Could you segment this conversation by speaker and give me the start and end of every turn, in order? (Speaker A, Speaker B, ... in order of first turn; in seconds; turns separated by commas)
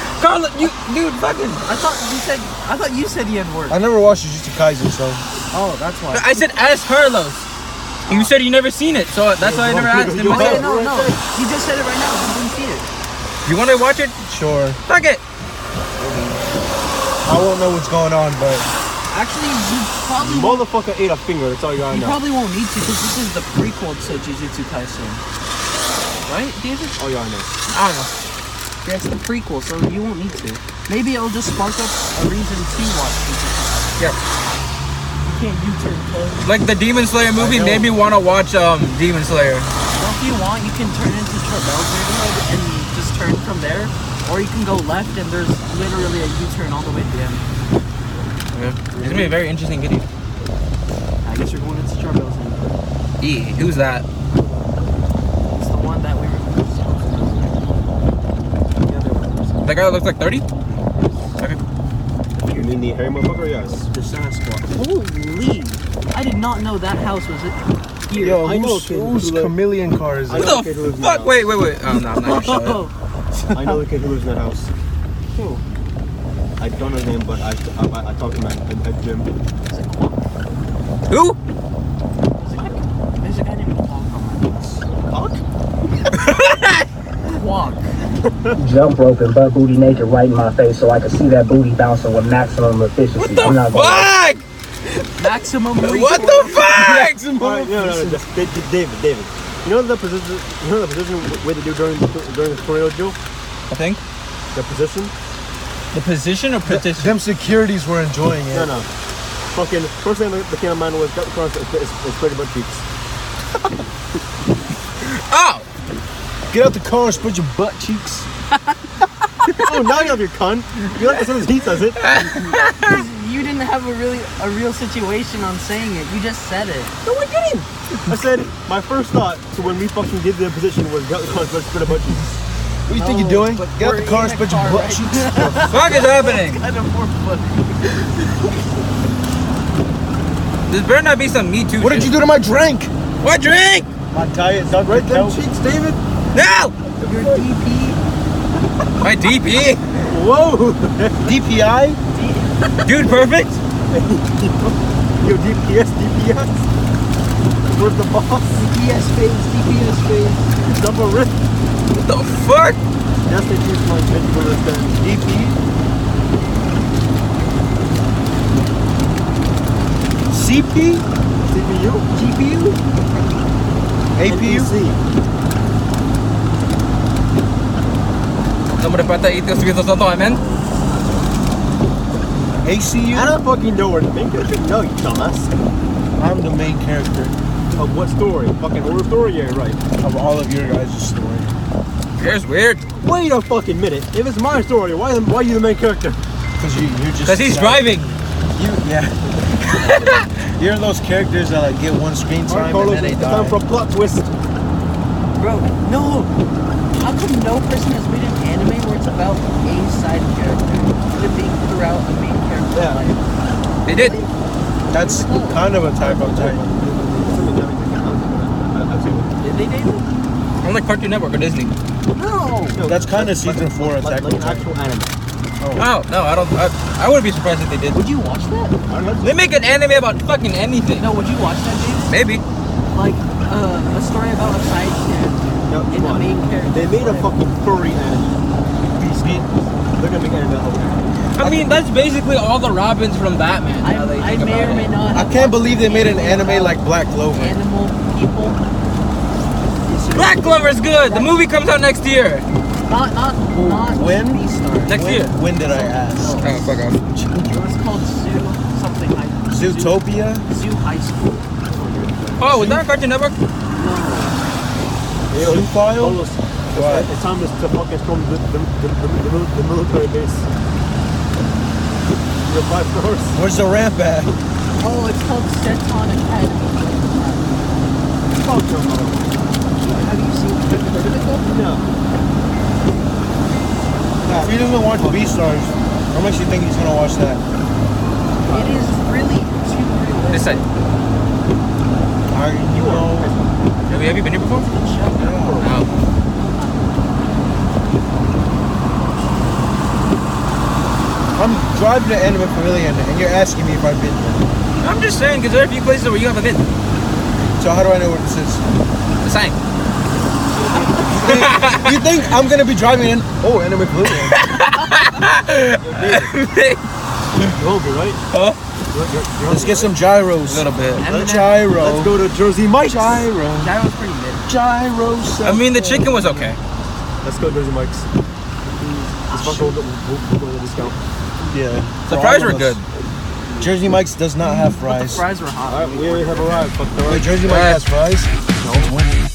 Speaker A: 0.2-1.7, Speaker B: 1.6-3.8, Speaker C: 3.7-5.2, Speaker B: 5.5-6.3, Speaker A: 6.1-7.5, Speaker A: 8.1-10.6, Speaker D: 9.4-11.2, Speaker B: 10.3-12.9, Speaker A: 13.4-14.2, Speaker C: 14.3-14.8, Speaker A: 14.9-15.2, Speaker C: 17.2-18.7, Speaker B: 19.1-20.7, Speaker D: 20.2-22.2, Speaker B: 21.9-25.2, Speaker B: 26.3-27.0, Speaker D: 27.0-27.5, Speaker A: 27.7-28.1, Speaker B: 28.8-34.1, Speaker B: 35.2-36.5, Speaker A: 36.4-39.7, Speaker C: 37.4-38.0, Speaker B: 39.9-47.5, Speaker A: 48.5-50.1, Speaker B: 49.0-49.3, Speaker B: 51.2-52.8, Speaker A: 53.2-54.1, Speaker B: 54.3-54.6, Speaker B: 55.5-57.7, Speaker B: 58.7-59.9, Speaker A: 59.6-60.5, Speaker B: 62.4-63.0, Speaker D: 62.5-63.9, Speaker B: 63.9-68.5, Speaker C: 68.2-70.6, Speaker D: 68.3-69.6, Speaker D: 70.3-71.6, Speaker A: 70.4-72.9, Speaker B: 72.1-72.9, Speaker D: 73.5-74.7, Speaker B: 75.3-75.6, Speaker D: 76.6-79.3, Speaker B: 79.7-80.3, Speaker A: 81.1-81.4, Speaker B: 82.3-84.8, Speaker D: 84.8-85.4, Speaker A: 86.1-86.8, Speaker B: 87.3-87.9, Speaker D: 88.2-88.6, Speaker E: 88.6-94.1, Speaker A: 93.2-94.4, Speaker B: 95.2-96.6, Speaker A: 95.8-97.2, Speaker C: 96.6-98.2, Speaker D: 97.4-103.2, Speaker A: 103.7-104.0, Speaker D: 104.5-105.1, Speaker A: 105.9-107.2, Speaker C: 106.7-108.8, Speaker D: 108.5-108.9, Speaker D: 109.5-112.8, Speaker A: 115.0-115.7, Speaker C: 116.5-118.3, Speaker D: 119.4-122.0, Speaker A: 122.0-122.9, Speaker B: 122.4-127.0, Speaker A: 127.1-127.6, Speaker D: 128.1-132.4, Speaker C: 132.9-135.7, Speaker B: 132.9-138.1, Speaker A: 135.7-136.6, Speaker A: 140.7-142.1, Speaker C: 141.8-142.9, Speaker A: 143.2-143.9, Speaker C: 144.1-145.4, Speaker D: 144.7-146.0, Speaker A: 146.3-146.8, Speaker B: 147.0-148.0, Speaker A: 149.0-149.8, Speaker D: 150.0-151.3, Speaker C: 151.2-152.0, Speaker B: 152.1-152.9, Speaker A: 152.8-153.6, Speaker D: 153.9-156.7, Speaker D: 157.6-158.6, Speaker B: 158.6-160.4, Speaker D: 160.6-161.4, Speaker A: 161.9-162.8, Speaker D: 163.3-165.0, Speaker C: 165.0-165.6, Speaker C: 170.3-171.1, Speaker D: 171.4-172.1, Speaker B: 172.1-172.8, Speaker C: 174.2-174.7, Speaker D: 174.3-175.0, Speaker A: 178.8-180.4, Speaker C: 182.6-183.4, Speaker D: 183.1-185.5, Speaker C: 186.2-187.4, Speaker D: 187.7-189.8, Speaker C: 190.0-191.5, Speaker A: 192.2-192.9, Speaker D: 192.9-196.2, Speaker C: 196.6-198.0, Speaker A: 197.2-198.2, Speaker C: 198.6-199.3, Speaker A: 199.6-200.3, Speaker C: 200.4-203.6, Speaker D: 202.5-204.3, Speaker B: 205.4-206.3, Speaker B: 206.9-213.2, Speaker D: 212.7-213.0, Speaker A: 213.9-214.2, Speaker B: 213.9-214.3, Speaker C: 214.9-216.6, Speaker B: 214.9-215.7, Speaker D: 216.0-219.3, Speaker B: 219.4-220.2, Speaker A: 220.6-221.7, Speaker B: 222.1-222.8, Speaker D: 222.7-225.1, Speaker C: 222.9-224.7, Speaker C: 225.6-225.9, Speaker A: 225.8-228.0, Speaker B: 227.9-228.8, Speaker D: 228.9-229.4, Speaker A: 229.2-231.1, Speaker B: 231.0-232.2, Speaker A: 232.1-232.4, Speaker B: 232.9-237.3, Speaker D: 235.7-238.4, Speaker C: 239.0-239.5, Speaker D: 239.2-241.2, Speaker A: 241.4-244.9, Speaker C: 241.4-241.8, Speaker B: 243.8-246.8, Speaker C: 245.1-247.6, Speaker B: 247.3-248.6, Speaker B: 249.9-251.4, Speaker A: 250.1-252.5, Speaker B: 252.8-262.4, Speaker C: 253.5-256.4, Speaker A: 254.9-255.4, Speaker A: 256.4-257.0, Speaker C: 257.1-257.4, Speaker C: 259.5-260.5, Speaker D: 261.7-262.4, Speaker A: 262.4-263.4, Speaker C: 262.4-262.9, Speaker B: 263.7-264.4, Speaker D: 265.3-270.5, Speaker C: 265.4-267.1, Speaker D: 272.4-273.4, Speaker C: 273.3-274.4, Speaker B: 274.8-277.9, Speaker D: 278.4-279.4, Speaker B: 279.8-281.6, Speaker D: 281.4-281.9, Speaker D: 284.2-285.3, Speaker C: 284.3-287.4, Speaker D: 288.4-288.9, Speaker B: 288.5-290.7, Speaker A: 290.3-290.6, Speaker C: 292.3-293.3, Speaker D: 292.7-293.6, Speaker A: 293.9-294.7, Speaker B: 294.6-295.4, Speaker C: 295.2-295.7, Speaker D: 295.2-295.8, Speaker A: 295.6-295.9, Speaker B: 296.3-297.1, Speaker C: 301.4-304.5, Speaker A: 304.8-306.7, Speaker C: 307.6-308.6, Speaker A: 309.2-309.6, Speaker D: 310.5-311.2, Speaker B: 310.6-311.1, Speaker C: 311.1-314.4, Speaker A: 311.1-312.2, Speaker A: 314.4-316.8, Speaker D: 315.8-316.4, Speaker D: 317.5-318.2, Speaker A: 318.3-318.6, Speaker D: 318.9-320.0, Speaker C: 319.5-322.2, Speaker A: 320.5-321.1, Speaker B: 321.0-321.6, Speaker D: 321.0-323.2, Speaker C: 322.8-323.7, Speaker B: 323.5-324.5, Speaker C: 324.5-326.5, Speaker A: 325.4-326.6, Speaker D: 327.2-328.1, Speaker B: 328.8-329.8, Speaker D: 329.3-331.0, Speaker C: 331.5-332.8, Speaker A: 332.1-332.8, Speaker C: 333.6-335.2, Speaker B: 334.4-336.7, Speaker D: 335.7-337.4, Speaker C: 337.1-339.2, Speaker A: 337.5-337.8, Speaker B: 338.6-338.9